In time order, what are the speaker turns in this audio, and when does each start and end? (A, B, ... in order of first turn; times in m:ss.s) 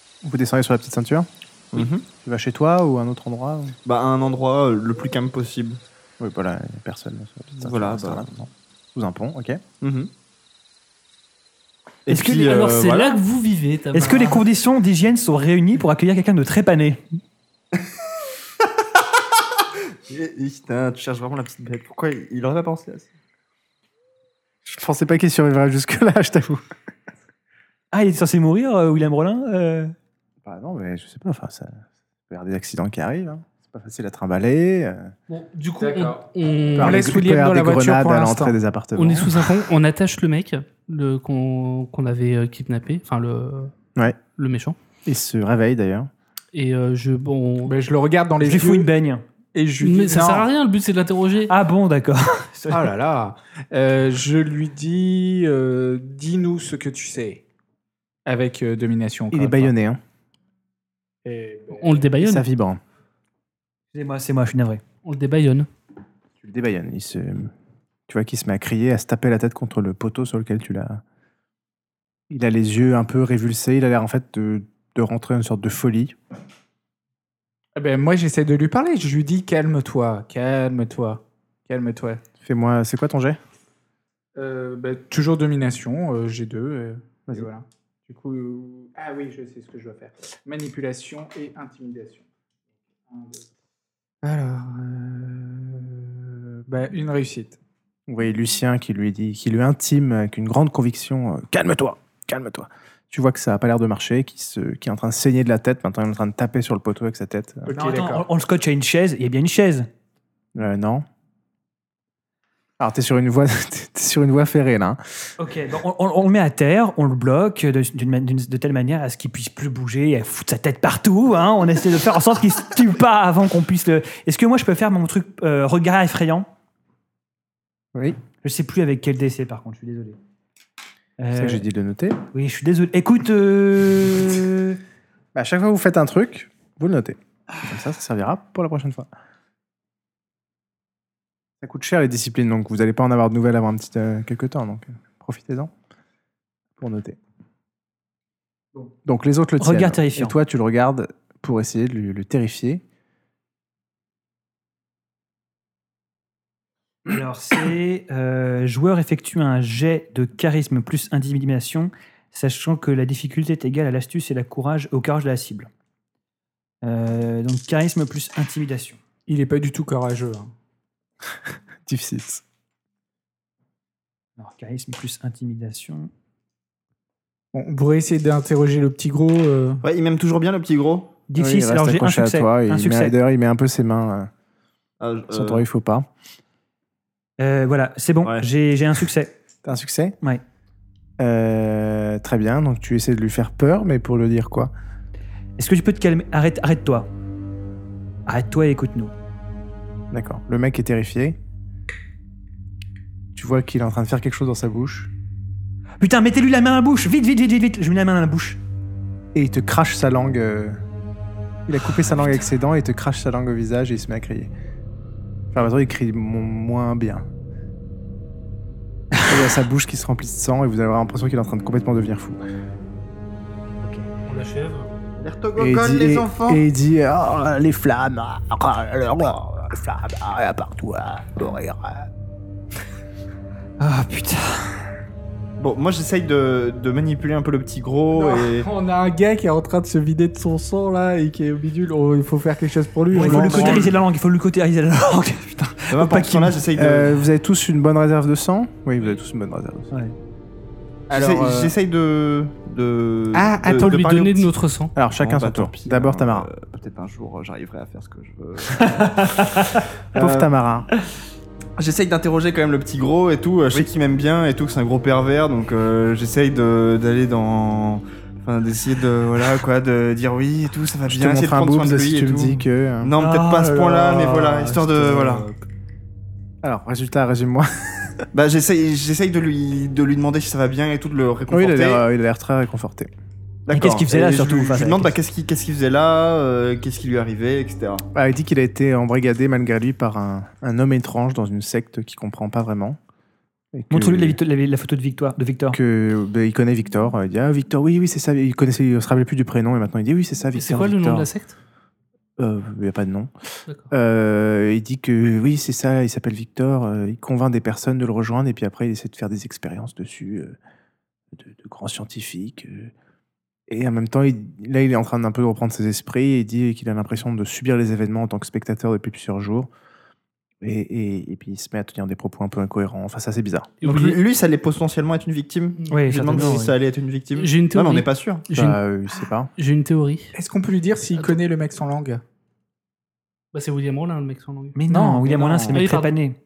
0:00.2-0:03.7 A
0:01.7-0:02.1 B
0:03.8-0:05.8 B
0:06.2-0:09.6 A
0:07.6-0:08.4 B
0:09.8-0:10.1 B
0:12.0-0:13.1 B
0:12.1-0:12.6 C
0:12.3-0:14.4 D
0:13.9-0:17.1 C
0:20.1-0:23.1 B
0:24.6-0:26.6 A
0:27.9-0:29.9 C
0:30.4-0:35.1 A
0:35.3-0:37.0 D
0:35.8-0:36.2 E
0:36.8-0:38.6 E
0:36.8-0:39.5 A
0:39.0-0:43.7 D
0:44.4-0:44.8 D
0:45.0-0:46.1 A
0:46.5-0:47.7 D
0:47.6-0:48.9 E
0:48.4-0:49.2 C
0:49.5-0:50.5 E
0:49.8-0:51.5 D
0:51.5-0:52.9 C
0:52.7-0:57.4 E
0:58.2-0:59.7 E
0:59.3-1:00.0 A
1:01.2-1:02.1 E
1:01.7-1:02.4 D
1:02.2-1:02.8 A
1:03.9-1:04.8 C
1:05.0-1:05.7 D
1:06.4-1:07.5 A
1:08.1-1:11.0 A
1:12.3-1:16.2 A
1:17.8-1:22.2 E
1:22.4-1:23.4 A
1:24.4-1:32.2 E
1:33.1-1:33.4 E
1:34.2-1:37.6 E
1:38.1-1:47.7 A
1:47.7-1:48.3 E
1:47.7-1:49.9 C
1:50.5-1:51.0 A
1:52.8-1:55.0 A
1:55.4-2:06.5 C
2:08.4-2:10.2 C
2:11.2-2:11.6 C
2:11.3-2:12.2 A
2:12.3-2:14.8 C
2:15.3-2:19.1 A
2:21.6-2:25.7 A
2:26.8-2:27.2 A
2:29.0-2:32.8 A
2:29.6-2:30.4 C
2:37.1-2:45.7 C
2:46.8-2:49.0 C
2:49.3-2:50.5 E
2:51.8-2:52.4 A
2:54.4-2:56.1 C
2:57.5-2:59.8 E
2:59.8-3:01.2 B
3:01.3-3:03.2 C
3:01.4-3:04.3 A
3:05.0-3:05.6 B
3:05.3-3:06.1 A
3:07.4-3:09.3 C
3:09.6-3:10.2 A
3:11.2-3:14.7 A
3:15.6-3:17.1 C
3:18.3-3:19.1 C
3:20.1-3:21.4 A
3:23.3-3:25.1 A
3:26.0-3:28.6 C
3:29.3-3:30.8 A
3:31.7-3:34.5 A
3:35.5-3:37.2 A
3:39.2-3:42.4 A
3:43.8-3:44.1 C
3:44.2-3:44.9 D
3:45.2-3:46.6 B
3:45.6-3:52.1 A
3:53.8-3:54.9 C
3:55.6-3:58.7 B
3:58.1-4:03.9 E
4:03.1-4:06.7 C
4:03.2-4:03.9 B
4:05.9-4:07.2 B
4:06.7-4:09.9 A
4:11.1-4:11.7 E
4:11.1-4:14.5 B
4:13.3-4:14.0 E
4:13.7-4:14.9 D
4:15.0-4:16.5 A
4:15.2-4:20.5 B
4:18.9-4:19.8 C
4:20.2-4:20.9 A
4:21.8-4:35.5 B
4:31.1-4:33.1 A
4:33.2-4:35.5 C
4:36.6-4:38.2 A
4:38.3-4:42.0 B
4:41.5-4:43.1 A
4:43.6-4:48.0 B
4:43.7-4:45.1 C
4:48.1-4:53.0 A
4:53.7-4:54.4 A
4:53.9-4:55.8 C
4:55.7-5:01.3 A
5:00.5-5:01.6 D
5:02.4-5:03.3 A
5:03.9-5:10.6 A
5:11.3-5:12.9 A
5:13.7-5:19.7 A
5:20.6-5:23.8 A
5:23.8-5:24.2 D
5:23.8-5:28.5 B
5:25.8-5:26.7 D
5:25.9-5:26.7 C
5:27.3-5:28.8 D
5:28.5-5:29.5 A
5:29.6-5:30.3 D
5:30.3-5:32.2 E
5:33.5-5:34.8 D
5:34.7-5:36.4 C
5:34.9-5:35.8 E
5:35.7-5:36.1 D